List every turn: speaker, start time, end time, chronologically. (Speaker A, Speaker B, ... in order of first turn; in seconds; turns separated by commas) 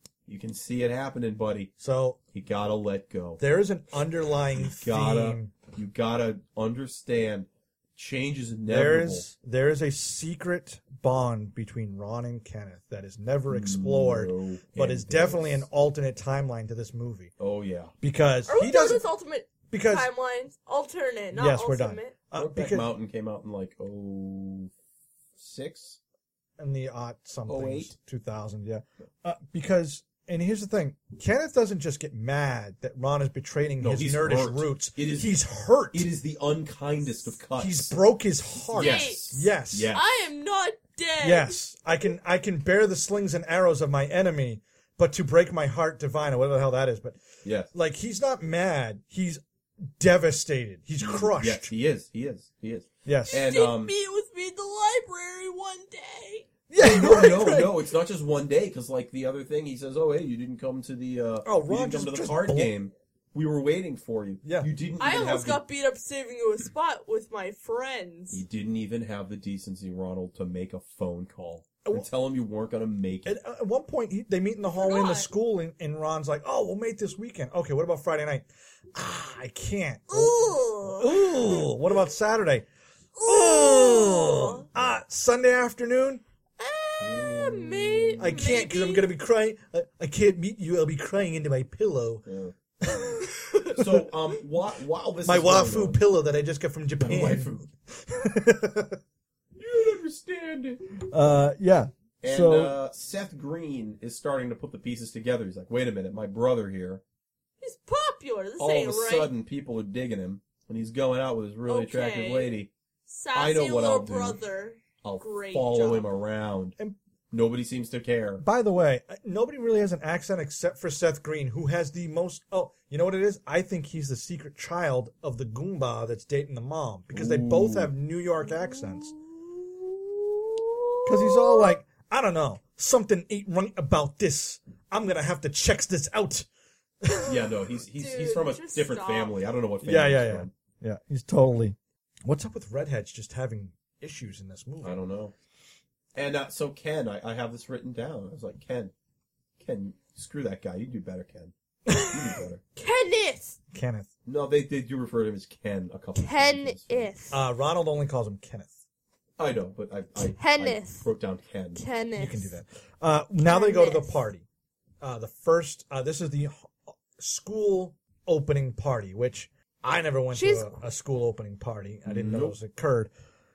Speaker A: 0.3-1.7, Speaker B: 1.8-2.2, Speaker A: 2.3-3.4, Speaker B: 3.4-5.5, Speaker A: 4.5-9.3, Speaker B: 8.7-17.3, Speaker A: 13.5-15.7, Speaker A: 17.4-17.9, Speaker B: 18.0-19.1, Speaker C: 18.5-22.2, Speaker B: 19.7-20.1, Speaker B: 21.4-22.9, Speaker A: 22.3-24.7, Speaker A: 25.4-26.0, Speaker B: 26.6-36.1, Speaker A: 27.5-27.9, Speaker A: 33.8-35.4, Speaker A: 35.9-38.0, Speaker B: 37.6-39.9, Speaker A: 38.7-40.0, Speaker C: 38.7-41.6, Speaker B: 41.2-47.2, Speaker A: 47.4-47.7, Speaker B: 47.7-51.7, Speaker A: 51.0-53.9, Speaker B: 53.1-53.5, Speaker C: 53.3-56.5, Speaker B: 56.7-57.8, Speaker A: 56.8-65.6, Speaker B: 61.5-62.7, Speaker B: 64.4-64.7, Speaker C: 65.0-68.4, Speaker A: 68.3-73.4, Speaker B: 73.2-82.7, Speaker C: 74.7-75.3, Speaker C: 80.1-81.7, Speaker C: 83.2-84.7, Speaker B: 83.2-86.2, Speaker C: 86.6-89.1, Speaker A: 87.0-88.3, Speaker B: 88.2-92.2, Speaker A: 92.2-92.5, Speaker B: 92.8-93.8, Speaker A: 93.8-96.0, Speaker B: 95.2-99.0, Speaker A: 97.0-97.7, Speaker A: 99.6-100.8, Speaker B: 101.1-102.8, Speaker A: 102.2-107.0, Speaker C: 107.6-109.3, Speaker A: 108.6-112.7, Speaker C: 111.7-116.1, Speaker A: 113.3-114.4, Speaker A: 115.0-116.8, Speaker A: 117.3-118.4, Speaker B: 118.4-129.1, Speaker A: 127.1-127.9, Speaker C: 128.4-131.7, Speaker B: 131.1-136.5, Speaker B: 137.0-137.3, Speaker A: 137.3-140.5, Speaker C: 137.9-139.4, Speaker B: 139.8-145.0, Speaker A: 144.8-145.3, Speaker A: 146.2-148.9, Speaker A: 149.6-152.6, Speaker B: 151.9-152.2, Speaker C: 152.8-153.6, Speaker B: 153.7-154.1, Speaker A: 154.3-157.1, Speaker C: 156.2-157.4, Speaker B: 157.3-158.8, Speaker A: 159.4-161.8, Speaker C: 160.3-161.1, Speaker C: 161.8-162.5, Speaker B: 162.2-164.4, Speaker C: 163.4-164.1, Speaker B: 165.0-173.1, Speaker C: 170.3-170.7, Speaker A: 172.1-172.6